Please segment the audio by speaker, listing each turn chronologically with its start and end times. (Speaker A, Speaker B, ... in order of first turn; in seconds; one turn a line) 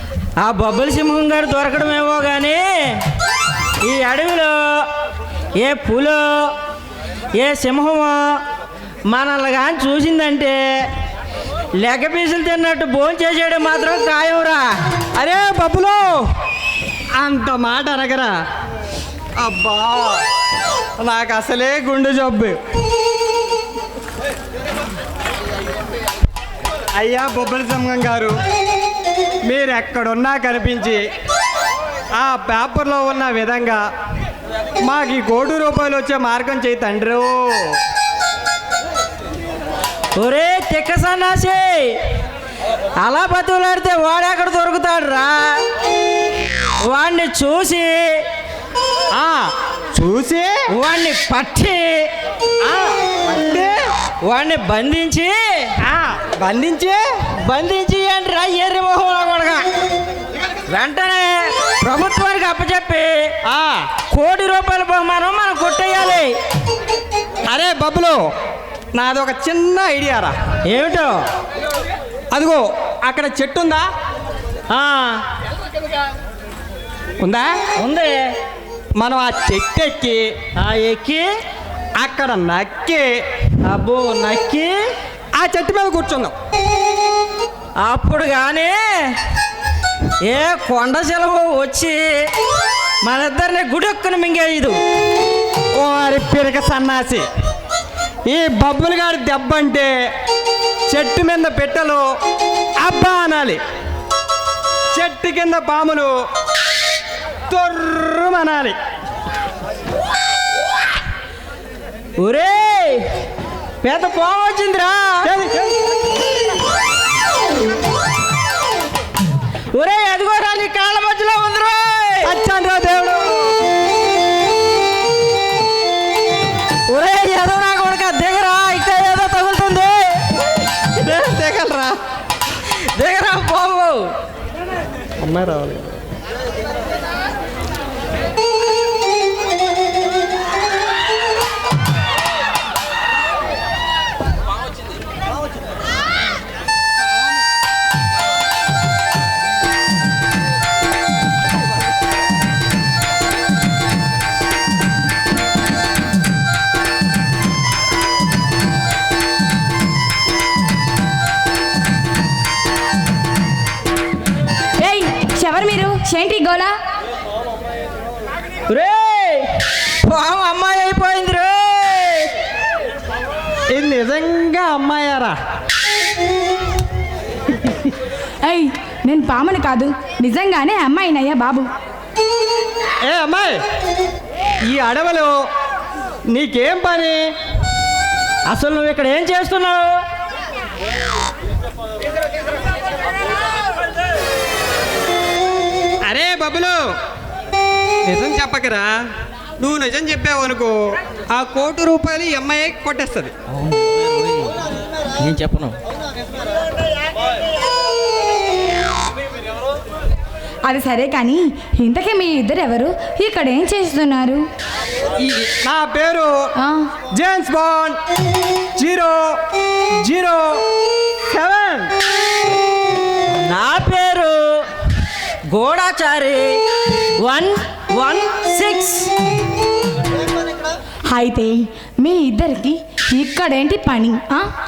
Speaker A: 0.4-3.0
Speaker A: 3.8-4.8
Speaker A: 5.5-6.5
Speaker A: 7.3-8.4
Speaker A: 9.1-10.8
Speaker A: 11.8-14.7
Speaker B: 15.2-16.2
Speaker B: 17.2-18.3
Speaker B: 19.4-20.2
Speaker B: 21.0-22.6
Speaker B: 26.9-28.4
Speaker B: 29.4-31.0
Speaker B: 32.1-33.8
Speaker B: 34.8-37.8
Speaker A: 40.1-42.0
Speaker A: 43.0-45.6
Speaker A: 46.8-48.2
Speaker B: 49.1-50.6
Speaker A: 50.7-52.0
Speaker B: 52.6-53.8
Speaker A: 54.2-55.7
Speaker B: 55.8-57.0
Speaker A: 57.4-59.6
Speaker A: 60.7-63.1
Speaker B: 63.4-63.8
Speaker A: 64.1-66.3
Speaker B: 67.4-68.2
Speaker B: 68.9-70.3
Speaker A: 70.7-71.2
Speaker B: 72.3-73.8
Speaker A: 74.7-75.2
Speaker B: 77.2-77.5
Speaker A: 77.8-78.2
Speaker B: 79.0-80.2
Speaker A: 80.6-81.3
Speaker B: 82.0-83.1
Speaker A: 83.6-84.7
Speaker B: 85.3-86.3
Speaker A: 87.8-89.1
Speaker A: 90.2-92.1
Speaker A: 93.0-94.8
Speaker B: 95.8-97.2
Speaker B: 98.2-99.9
Speaker B: 100.9-102.0
Speaker B: 102.8-103.6
Speaker B: 104.9-106.1
Speaker B: 107.5-108.8
Speaker A: 112.2-113.0
Speaker A: 113.8-115.3
Speaker B: 115.2-115.7
Speaker A: 119.7-122.3
Speaker B: 122.2-123.5
Speaker A: 126.9-130.6
Speaker B: 130.9-132.0
Speaker A: 132.9-134.1
Speaker B: 135.2-136.0
Speaker C: 164.8-166.7
Speaker A: 168.7-172.3
Speaker B: 173.7-175.3
Speaker C: 178.4-181.7
Speaker B: 183.0-183.6
Speaker B: 184.6-185.5
Speaker B: 186.3-187.3
Speaker A: 188.5-190.0
Speaker B: 196.1-196.9
Speaker B: 198.0-198.9
Speaker B: 199.6-200.8
Speaker B: 201.3-203.3
Speaker A: 203.7-204.5
Speaker A: 205.2-205.8
Speaker C: 210.7-214.5
Speaker B: 215.2-216.5
Speaker C: 216.6-216.9
Speaker B: 217.1-218.0
Speaker B: 218.8-219.4
Speaker B: 220.0-220.6
Speaker B: 221.2-221.9
Speaker A: 223.4-224.4
Speaker A: 225.5-226.6
Speaker A: 227.2-229.1
Speaker C: 231.1-234.4